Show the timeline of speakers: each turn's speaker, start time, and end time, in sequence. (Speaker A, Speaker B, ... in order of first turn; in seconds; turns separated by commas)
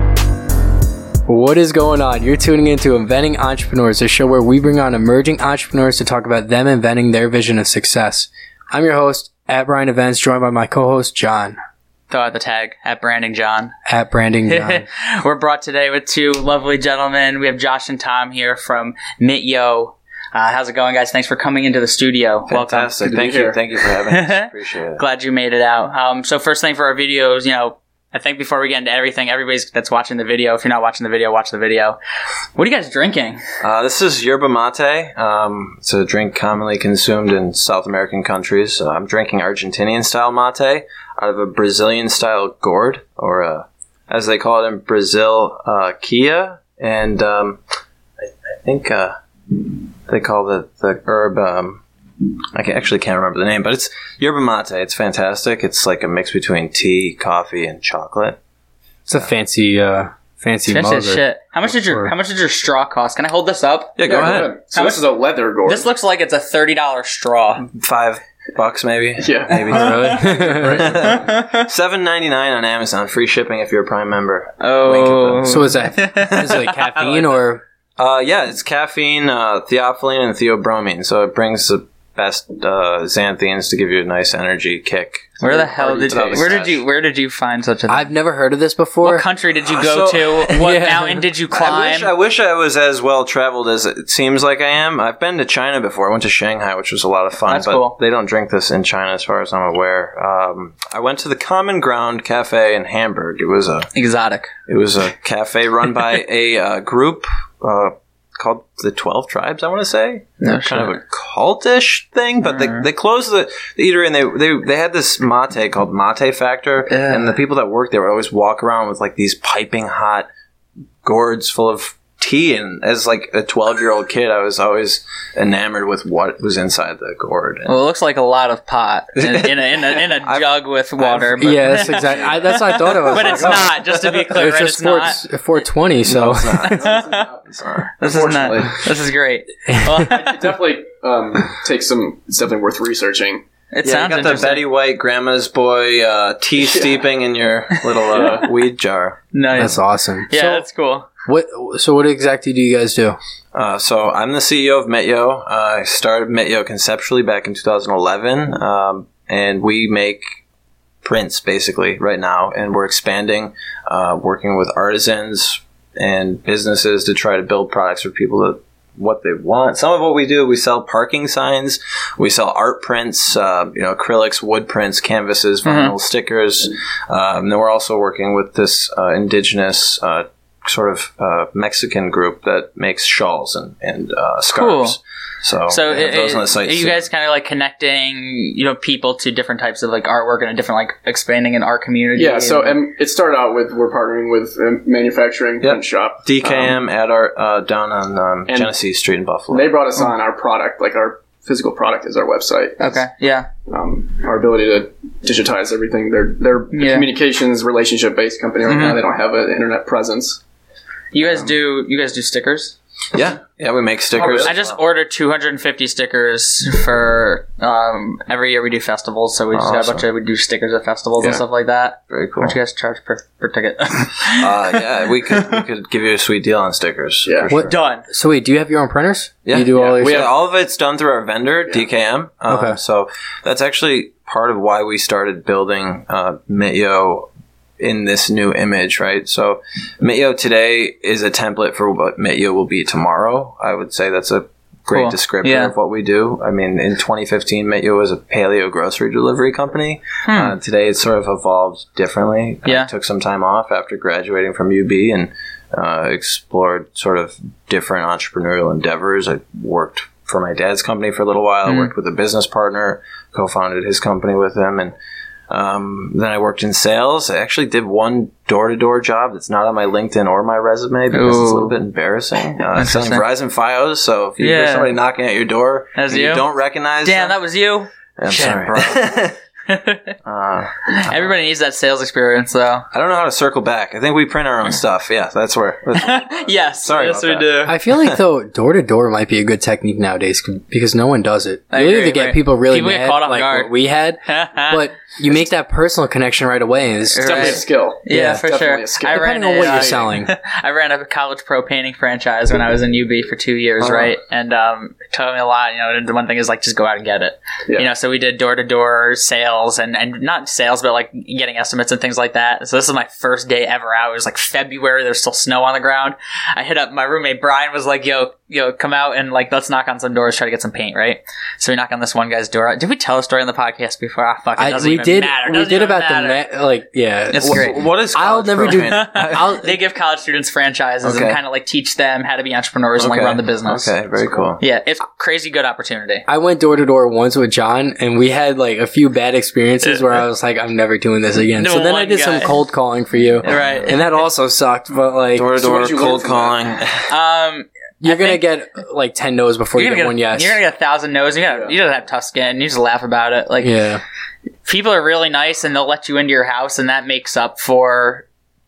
Speaker A: 1.3-11.6, Speaker B: 12.1-13.7, Speaker A: 13.8-14.8, Speaker B: 14.5-22.9, Speaker C: 22.5-25.0, Speaker D: 23.0-23.6, Speaker B: 24.1-32.0, Speaker B: 32.5-33.4, Speaker C: 33.6-47.6, Speaker C: 48.2-51.8, Speaker C: 52.5-58.4, Speaker A: 59.1-62.1, Speaker B: 60.7-65.0, Speaker C: 64.0-64.5, Speaker D: 64.0-65.9, Speaker B: 65.7-67.7, Speaker C: 67.7-75.7, Speaker D: 69.2-71.2, Speaker A: 69.7-70.8, Speaker B: 69.7-71.7, Speaker B: 74.6-77.2, Speaker A: 75.4-77.6, Speaker C: 78.0-86.8, Speaker B: 85.4-88.1, Speaker D: 85.5-86.5, Speaker A: 87.9-89.2, Speaker B: 89.0-92.1, Speaker C: 89.7-103.9, Speaker A: 90.6-91.1, Speaker B: 97.5-98.0, Speaker B: 103.9-104.5, Speaker C: 104.7-120.3, Speaker B: 110.4-111.0, Speaker B: 112.4-112.8, Speaker B: 116.9-117.3, Speaker C: 121.0-127.7, Speaker B: 127.7-135.2, Speaker C: 129.2-134.3, Speaker A: 131.4-133.8, Speaker A: 134.3-136.8, Speaker C: 136.0-137.9, Speaker B: 136.6-137.2, Speaker D: 136.8-137.5, Speaker B: 138.0-140.3, Speaker D: 138.0-138.9, Speaker A: 139.7-140.1, Speaker D: 140.1-143.4, Speaker B: 143.7-144.6, Speaker C: 143.8-149.2, Speaker D: 146.6-147.1, Speaker D: 148.1-148.5, Speaker B: 149.3-151.1, Speaker A: 149.5-150.7, Speaker A: 151.2-153.2, Speaker C: 153.5-160.2, Speaker C: 161.0-187.0, Speaker B: 175.6-175.9, Speaker B: 184.5-185.0, Speaker B: 185.7-192.8, Speaker D: 192.2-196.8, Speaker C: 195.6-199.7, Speaker D: 199.5-203.0, Speaker B: 202.8-203.5, Speaker D: 203.7-210.4, Speaker B: 206.7-207.1, Speaker B: 208.7-209.0, Speaker B: 211.1-212.8, Speaker C: 213.1-214.8, Speaker B: 214.2-225.6, Speaker C: 219.5-220.0, Speaker C: 222.1-222.5, Speaker C: 224.3-227.8, Speaker A: 227.5-230.3, Speaker B: 227.5-228.0, Speaker C: 229.4-237.3, Speaker D: 229.7-230.3, Speaker A: 232.5-232.8, Speaker C: 237.8-264.9, Speaker B: 244.9-245.7, Speaker B: 250.3-250.5, Speaker B: 252.6-252.9, Speaker B: 261.6-261.9, Speaker C: 265.5-277.4, Speaker B: 271.1-271.8, Speaker B: 272.7-273.2, Speaker B: 274.4-274.9, Speaker B: 275.9-276.4, Speaker B: 277.0-279.0, Speaker C: 278.1-279.4, Speaker B: 279.7-280.1, Speaker C: 280.2-281.3, Speaker B: 280.9-282.8, Speaker C: 282.9-288.1, Speaker B: 285.9-287.8, Speaker A: 287.7-298.4, Speaker B: 291.7-293.7, Speaker B: 294.2-294.8, Speaker B: 297.1-326.4, Speaker D: 297.2-300.1, Speaker A: 299.0-300.3, Speaker A: 324.6-329.7, Speaker B: 327.3-327.8, Speaker C: 327.4-329.6, Speaker B: 328.6-333.9, Speaker C: 331.0-331.4, Speaker C: 333.0-334.6, Speaker B: 334.6-336.2, Speaker A: 336.3-345.5, Speaker B: 339.8-340.2, Speaker B: 341.6-342.6, Speaker C: 343.4-343.9, Speaker B: 343.4-344.0, Speaker C: 345.3-347.1, Speaker D: 345.6-346.6, Speaker B: 347.1-348.4, Speaker A: 348.0-350.6, Speaker B: 349.8-353.8, Speaker D: 351.5-351.8, Speaker A: 353.6-354.0, Speaker B: 354.6-358.2